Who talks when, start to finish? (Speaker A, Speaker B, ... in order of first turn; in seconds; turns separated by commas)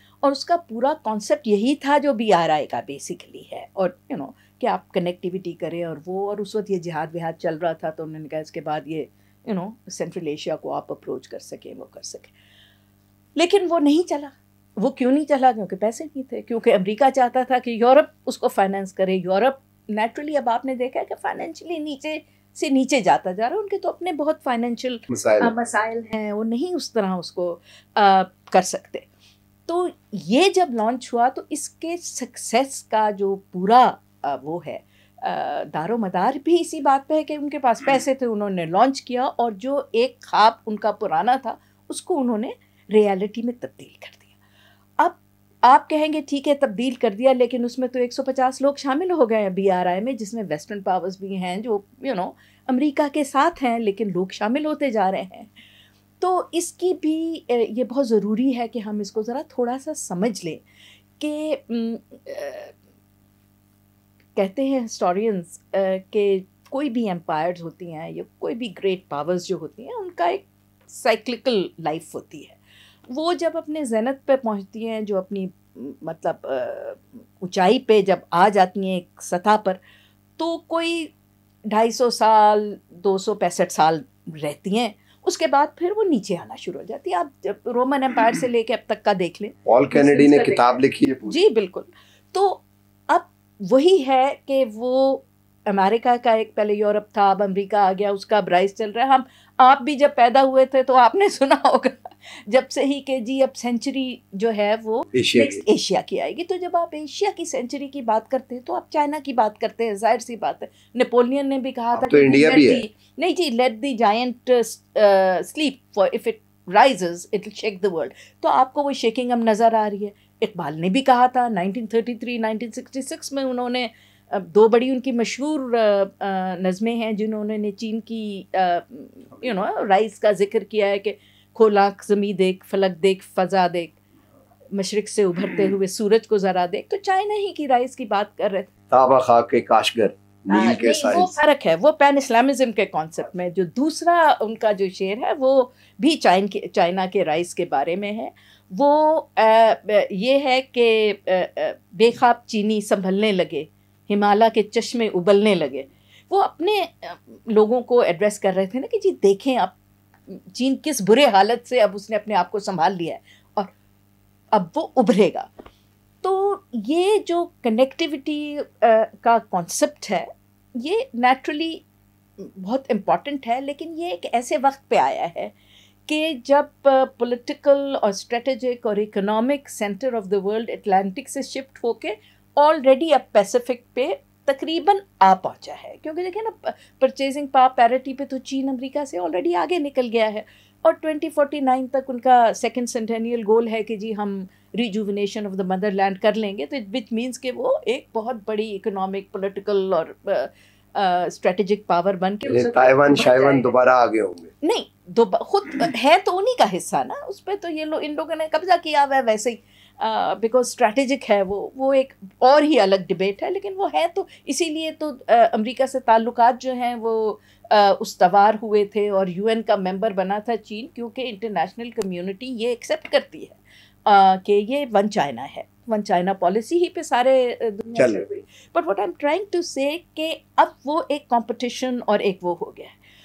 Speaker A: 0.2-12.3, Speaker A: 13.4-29.1, Speaker B: 25.1-25.5, Speaker A: 29.7-44.3, Speaker A: 45.0-55.5, Speaker A: 56.2-60.6, Speaker A: 61.2-62.8, Speaker A: 64.4-79.8, Speaker A: 80.4-81.1, Speaker A: 81.7-134.0, Speaker B: 89.7-91.4, Speaker B: 105.1-105.6, Speaker B: 111.9-112.8, Speaker A: 134.7-138.7, Speaker B: 138.9-141.3, Speaker A: 140.5-159.7, Speaker A: 160.3-163.7, Speaker A: 164.5-165.5, Speaker A: 166.2-171.8, Speaker A: 172.4-175.5, Speaker A: 176.1-203.7, Speaker B: 202.5-204.5, Speaker A: 204.6-233.0, Speaker B: 227.9-228.3